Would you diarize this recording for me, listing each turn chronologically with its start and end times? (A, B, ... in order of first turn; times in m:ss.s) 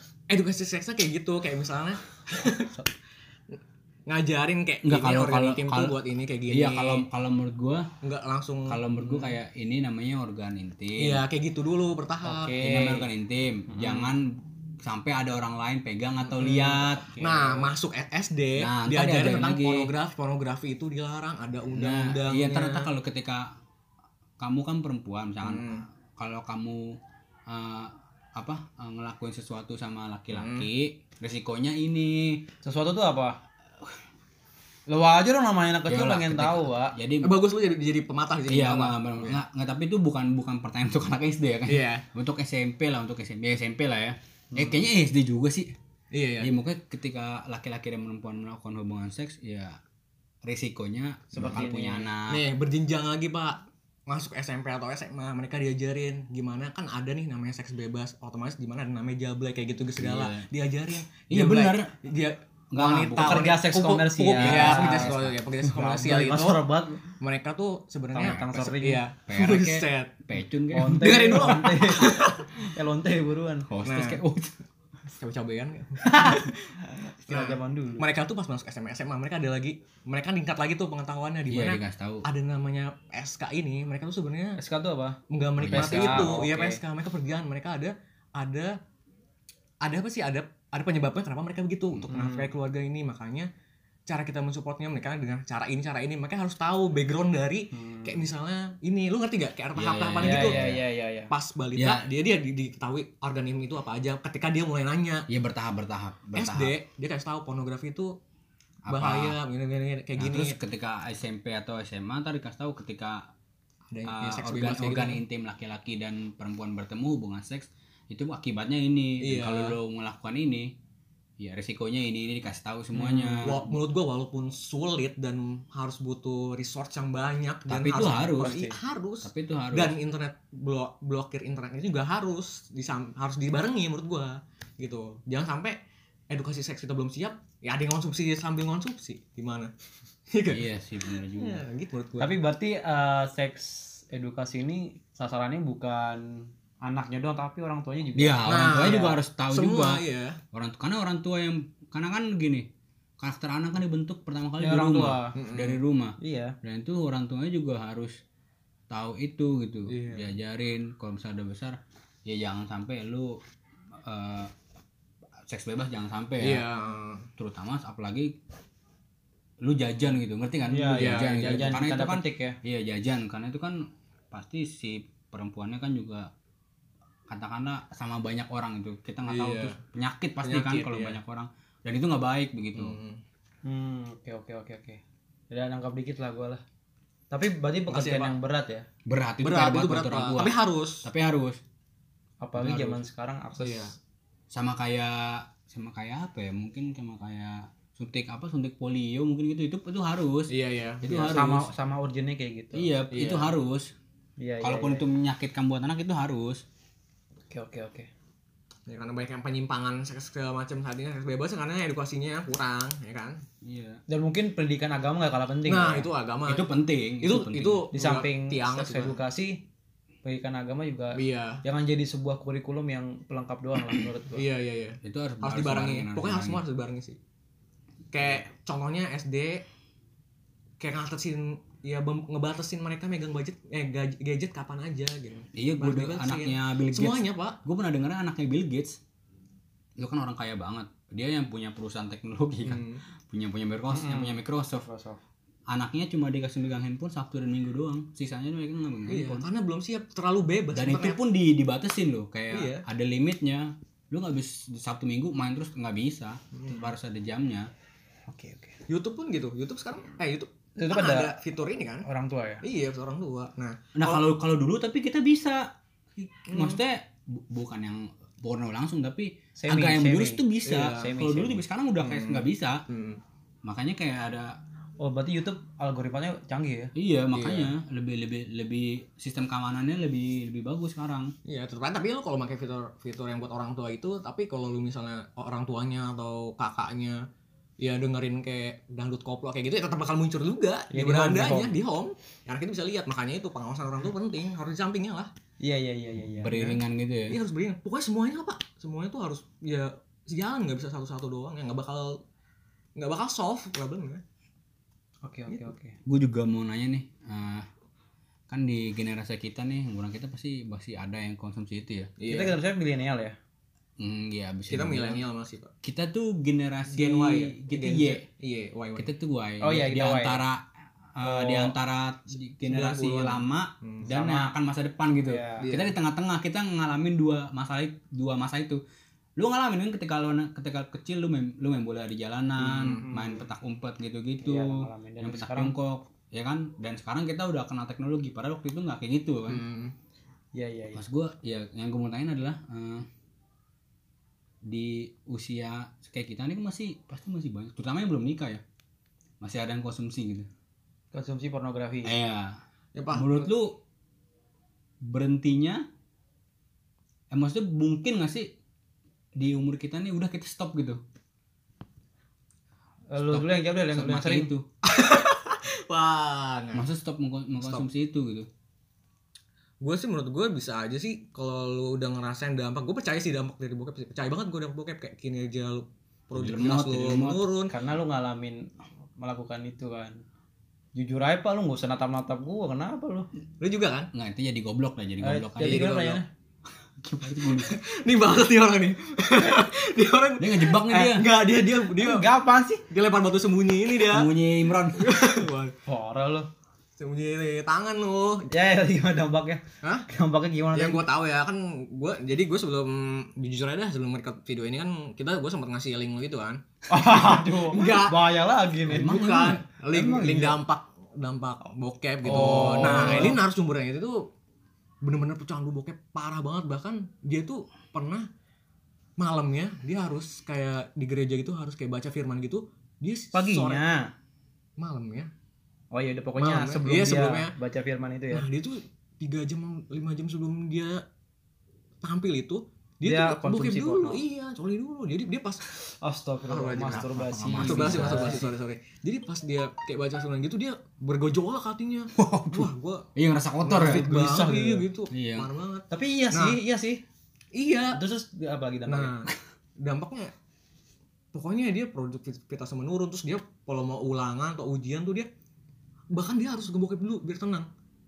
0:00.3-0:02.8 A
0:04.1-0:07.0 A
0:04.8-0:05.9 B
0:06.5-0:07.9 B
0:08.0-0:09.3 A
0:08.7-0:11.2 B
0:11.0-0:12.6 A
0:12.2-0:13.0 C
0:12.6-0:14.3 B
0:13.7-0:14.1 C
0:14.8-0:17.1 B
0:16.2-0:22.9 A
0:17.1-0:17.5 C
0:18.6-0:19.9 B
0:21.7-0:23.5 B
0:24.4-0:27.0 B
0:25.4-0:25.8 A
0:27.5-0:32.4 B
0:30.3-0:30.7 A
0:32.6-0:33.4 C
0:34.9-0:36.9 C
0:35.9-0:37.4 B
0:37.2-0:39.4 A
0:38.5-0:45.7 B
0:41.7-0:42.0 A
0:44.5-0:44.8 C
0:46.1-0:46.5 A
0:46.4-0:49.8 B
0:50.4-0:52.4 B
0:51.3-0:52.1 C
0:52.3-1:06.6 A
1:00.0-1:00.5 B
1:01.3-1:01.9 B
1:02.7-1:03.6 B
1:03.2-1:05.2 C
1:04.3-1:05.4 B
1:05.7-1:07.1 C
1:07.2-1:10.2 A
1:08.1-1:09.0 C
1:09.3-1:11.2 B
1:10.7-1:13.7 C
1:11.0-1:12.5 A
1:13.7-1:14.5 B
1:13.8-1:14.2 A
1:15.1-1:16.5 A
1:16.0-1:18.1 C
1:17.3-1:24.6 A
1:21.5-1:22.2 B
1:24.6-1:25.2 C
1:25.3-1:28.7 A
1:25.6-1:26.4 B
1:25.7-1:26.8 C
1:29.8-1:33.5 A
1:32.1-1:32.5 C
1:34.1-1:40.6 A
1:37.7-1:38.2 C
1:39.8-1:40.8 B
1:40.2-1:41.3 C
1:41.3-1:45.2 A
1:41.8-1:42.0 B
1:45.3-1:46.7 B
1:46.3-1:48.1 A
1:48.8-1:49.4 B
1:48.9-1:50.6 A
1:50.2-1:53.3 B
1:53.9-1:55.2 A
1:54.1-2:00.7 B
1:59.2-1:59.8 A
2:01.4-2:03.7 B
2:03.0-2:03.6 C
2:03.4-2:15.8 A
2:07.7-2:08.6 B
2:08.3-2:08.8 C
2:09.2-2:09.9 B
2:16.3-2:19.7 A
2:20.3-2:22.3 A
2:20.5-2:21.6 B
2:22.2-2:29.1 C
2:28.2-2:32.7 B
2:28.4-2:30.4 A
2:33.2-2:38.2 B
2:34.6-2:35.3 C
2:35.3-2:35.8 A
2:36.2-2:36.6 C
2:38.9-2:43.4 B
2:39.9-2:40.3 A
2:44.0-2:44.5 B
2:45.5-2:46.6 B
2:46.4-2:47.3 A
2:47.4-2:48.3 B
2:49.6-2:56.3 B
2:50.7-2:52.6 C
2:51.0-2:51.8 A
2:57.3-3:03.0 B
2:59.2-2:59.8 A
3:00.4-3:01.2 A
3:02.7-3:03.2 A
3:03.6-3:06.6 C
3:07.3-3:08.8 C
3:07.9-3:08.3 A
3:09.0-3:11.6 B
3:09.4-3:11.0 A
3:12.4-3:13.9 C
3:12.6-3:13.0 B
3:13.6-3:13.9 A
3:14.5-3:21.7 B
3:20.5-3:21.4 A
3:21.3-3:22.9 C
3:22.7-3:23.9 B
3:23.1-3:23.5 A
3:24.4-3:25.0 C
3:24.6-3:26.6 B
3:27.5-3:28.1 C
3:28.9-3:33.4 A
3:33.6-3:34.0 B
3:34.1-3:36.1 C
3:35.6-3:36.6 A
3:36.4-3:37.9 B
3:37.2-3:39.2 A
3:37.9-3:39.6 C
3:40.2-3:44.4 C
3:41.2-3:41.6 A
3:43.9-3:47.2 A
3:45.0-3:46.6 B
3:48.1-3:49.6 A
3:50.8-3:57.6 A
3:55.5-3:59.0 B
4:00.0-4:04.8 B
4:02.6-4:03.0 A
4:03.9-4:05.2 C
4:05.7-4:09.5 B
4:09.1-4:11.2 A
4:10.7-4:17.7 B
4:12.5-4:12.8 A
4:16.5-4:16.8 A
4:18.3-4:18.8 C
4:18.9-4:22.0 A
4:20.8-4:21.4 C
4:22.0-4:22.6 C
4:22.6-4:24.2 A
4:23.9-4:32.8 B
4:26.5-4:26.8 A
4:29.6-4:31.6 C
4:30.6-4:31.1 A
4:32.0-4:33.2 A
4:33.6-4:34.5 B
4:35.0-4:36.9 C
4:37.0-4:41.3 B
4:37.3-4:37.7 A
4:41.4-4:47.2 A
4:47.8-4:55.3 A
4:50.9-4:51.8 C
4:55.6-4:56.7 C
4:56.4-4:57.4 B
4:57.3-5:02.2 A
5:03.0-5:04.2 A
5:05.2-5:06.0 C
5:06.0-5:07.7 B
5:08.5-5:12.1 B
5:12.2-5:12.6 A
5:12.3-5:13.4 C
5:14.0-5:15.2 B
5:14.7-5:15.7 A
5:15.8-5:18.2 B
5:16.9-5:19.1 A
5:19.0-5:28.8 B
5:19.6-5:20.4 C
5:21.2-5:21.7 C
5:22.6-5:24.1 A
5:24.1-5:24.5 C
5:25.2-5:25.7 C
5:25.6-5:25.9 A
5:29.4-5:39.6 B
5:32.6-5:33.4 A
5:34.4-5:35.7 C
5:39.5-5:39.9 A
5:40.5-5:41.0 C
5:41.0-5:43.0 B
5:44.7-5:48.6 B
5:49.4-5:50.5 B
5:51.1-5:52.2 C
5:52.0-5:52.6 B
5:52.9-5:53.5 A
5:53.1-5:53.8 B
5:55.0-5:55.8 B
5:57.3-5:58.5 B
5:59.4-6:01.0 B
6:03.1-6:04.5 C
6:03.2-6:04.6 B
6:04.8-6:06.8 A
6:06.7-6:08.5 B
6:07.6-6:07.8 A
6:09.8-6:17.7 A
6:16.3-6:17.4 B
6:17.7-6:18.6 C
6:19.2-6:20.2 C
6:20.9-6:23.3 C
6:23.6-6:24.1 A
6:24.1-6:25.9 B
6:25.2-6:26.2 C
6:25.6-6:26.2 A
6:27.0-6:27.8 B
6:27.5-6:32.3 A
6:30.4-6:31.3 B
6:30.9-6:32.8 C
6:32.9-6:34.3 A
6:34.0-6:35.3 B
6:34.9-6:35.7 A
6:35.9-6:36.5 C
6:37.0-6:38.5 A
6:38.5-6:41.0 C
6:40.7-6:48.3 A
6:46.9-6:50.6 C
6:48.8-6:54.2 A
6:48.9-6:49.6 B
6:52.2-6:53.4 C
6:52.3-6:53.3 B
6:55.0-6:58.2 A
6:59.2-7:03.8 A
7:03.3-7:04.0 C
7:04.8-7:05.3 A
7:05.9-7:08.4 C
7:06.4-7:07.5 A
7:08.3-7:11.0 A
7:12.0-7:15.6 A
7:13.0-7:14.2 C
7:16.0-7:18.5 C
7:16.5-7:23.0 A
7:16.9-7:18.5 B
7:22.2-7:24.0 B
7:23.6-7:26.6 A
7:23.7-7:24.8 C
7:25.1-7:25.5 B
7:25.9-7:27.0 C
7:27.5-7:28.0 A
7:27.9-7:29.1 C
7:28.9-7:30.3 A
7:31.3-7:35.3 A
7:36.1-7:37.7 A